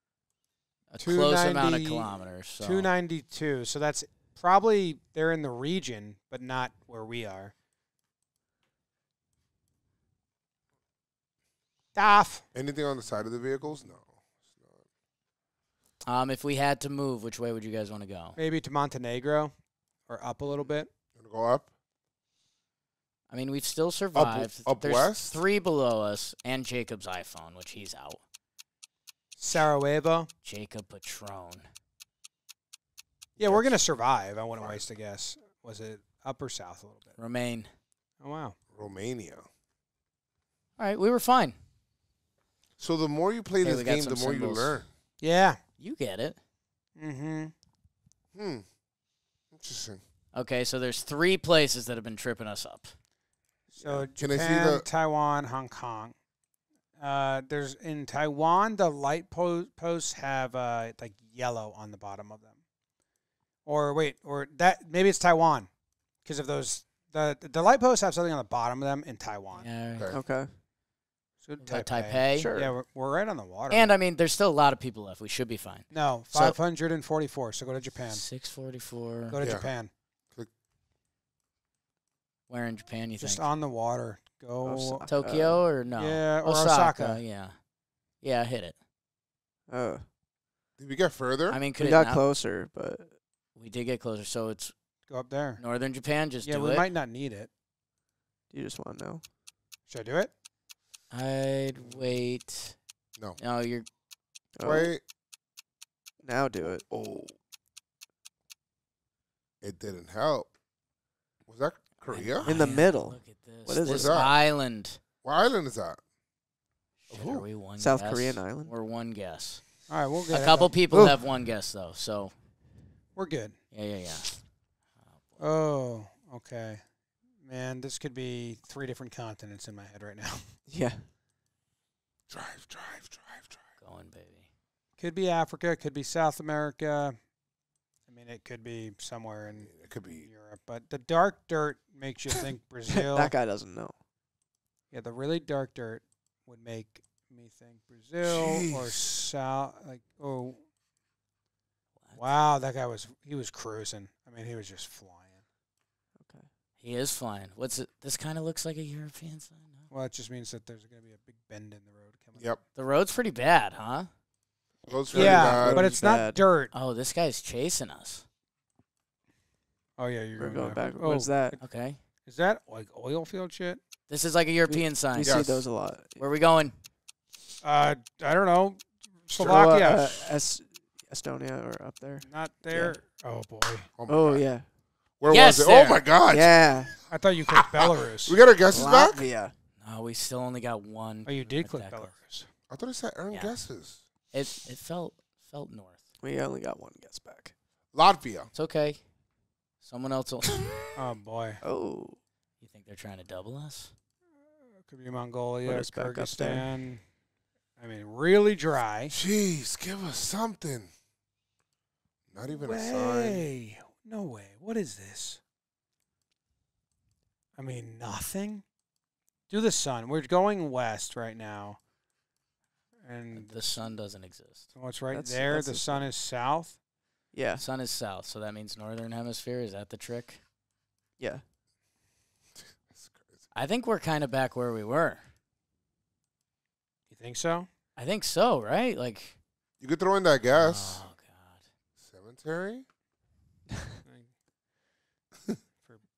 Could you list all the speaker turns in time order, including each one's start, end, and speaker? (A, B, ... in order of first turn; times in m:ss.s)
0:00.9-0:02.9 A
0:01.0-0:07.5 B
0:11.9-0:12.4 B
0:12.5-0:14.1 C
0:16.0-0:18.4 A
0:18.4-0:19.5 B
0:20.1-0:20.9 B
0:21.2-0:21.7 C
0:23.3-0:28.2 A
0:24.1-0:25.4 C
0:29.4-0:30.3 B
0:30.4-0:31.6 A
0:33.4-0:33.7 C
0:33.4-0:37.2 B
0:37.2-0:37.7 A
0:38.2-0:38.6 B
0:38.7-0:39.4 C
0:40.8-0:41.6 A
0:42.8-0:44.9 C
0:43.6-0:44.8 A
0:45.2-0:45.6 B
0:45.8-0:46.4 A
0:47.0-0:47.5 B
0:48.3-0:48.6 C
0:49.5-0:50.0 C
0:50.3-0:52.9 A
0:53.7-0:56.1 B
0:53.8-0:54.8 C
0:57.0-1:02.5 B
1:03.6-1:05.7 B
1:06.2-1:09.7 B
1:09.5-1:10.1 A
1:10.1-1:10.5 D
1:11.4-1:13.9 B
1:11.6-1:12.5 A
1:12.3-1:12.7 D
1:13.7-1:16.5 A
1:15.9-1:18.2 B
1:18.1-1:19.4 A
1:19.3-1:19.9 B
1:19.4-1:19.7 C
1:22.5-1:23.4 A
1:23.2-1:25.0 B
1:24.6-1:25.6 D
1:25.1-1:27.5 A
1:26.0-1:27.2 B
1:28.2-1:28.8 A
1:29.7-1:30.0 D
1:30.8-1:31.6 C
1:31.5-1:32.2 A
1:31.8-1:33.1 D
1:33.6-1:34.7 A
1:35.1-1:35.6 B
1:35.6-1:36.8 A
1:36.4-1:37.5 B
1:38.5-1:39.2 D
1:39.9-1:40.3 B
1:41.1-1:42.8 A
1:43.4-1:43.8 A
1:44.6-1:44.9 D
1:44.6-1:45.0 C
1:46.2-1:46.8 D
1:46.9-1:47.3 C
1:49.6-1:50.5 C
1:51.5-1:52.6 C
1:52.1-1:55.0 A
1:52.4-1:54.2 D
1:53.8-1:54.3 C
1:55.2-1:56.0 C
1:57.1-1:59.7 A
1:57.1-1:57.4 C
1:57.8-1:58.7 D
1:59.9-2:00.7 B
2:00.3-2:02.3 A
2:03.2-2:03.6 B
2:03.7-2:04.4 A
2:05.4-2:06.8 B
2:07.4-2:10.5 B
2:10.7-2:11.0 D
2:12.3-2:13.6 C
2:13.8-2:14.5 A
2:15.0-2:17.2 B
2:18.1-2:19.7 B
2:19.6-2:20.3 C
2:20.2-2:23.3 B
2:22.9-2:23.9 D
2:24.9-2:30.6 B
2:28.2-2:29.0 C
2:32.1-2:35.3 B
2:36.2-2:36.5 D
2:36.8-2:39.8 A
2:39.9-2:42.4 B
2:42.8-2:44.1 A
2:44.8-2:45.9 C
2:45.1-2:46.4 D
2:45.1-2:46.7 B
2:46.7-2:48.2 A
2:50.0-2:51.6 B
2:50.4-2:51.6 D
2:51.6-2:52.0 A
2:52.2-2:53.8 B
2:54.1-2:55.4 A
2:54.7-2:56.2 D
2:55.2-2:55.6 C
2:56.2-2:56.7 A
2:57.6-3:00.3 B
2:59.4-3:03.0 D
3:02.2-3:03.9 B
3:04.0-3:04.4 C
3:04.1-3:04.6 D
3:05.2-3:07.0 C
3:05.3-3:06.0 A
3:06.3-3:06.9 D
3:07.1-3:08.4 B
3:07.5-3:09.3 C
3:08.7-3:09.5 D
3:09.8-3:12.1 A
3:11.2-3:12.5 B
3:12.7-3:14.0 C
3:14.3-3:16.0 A
3:16.2-3:17.5 D
3:17.9-3:18.5 C
3:18.5-3:19.0 A
3:19.8-3:20.6 A
3:21.0-3:21.6 B
3:21.6-3:22.2 D
3:22.6-3:23.9 A
3:24.8-3:27.0 B
3:25.6-3:26.7 D
3:27.8-3:29.1 B
3:29.1-3:30.9 C
3:32.3-3:33.5 C
3:32.6-3:35.4 B
3:37.6-3:38.6 B
3:39.5-3:41.8 B
3:43.0-3:43.8 B
3:43.3-3:44.7 A
3:44.8-3:46.8 B
3:45.1-3:46.1 D
3:47.3-3:47.6 D
3:47.6-3:50.4 A
3:52.6-3:53.4 C
3:53.5-3:55.2 A
3:57.1-3:57.7 B
3:58.0-3:59.4 A
3:59.8-4:01.0 C
4:00.5-4:01.6 A
4:02.0-4:02.8 C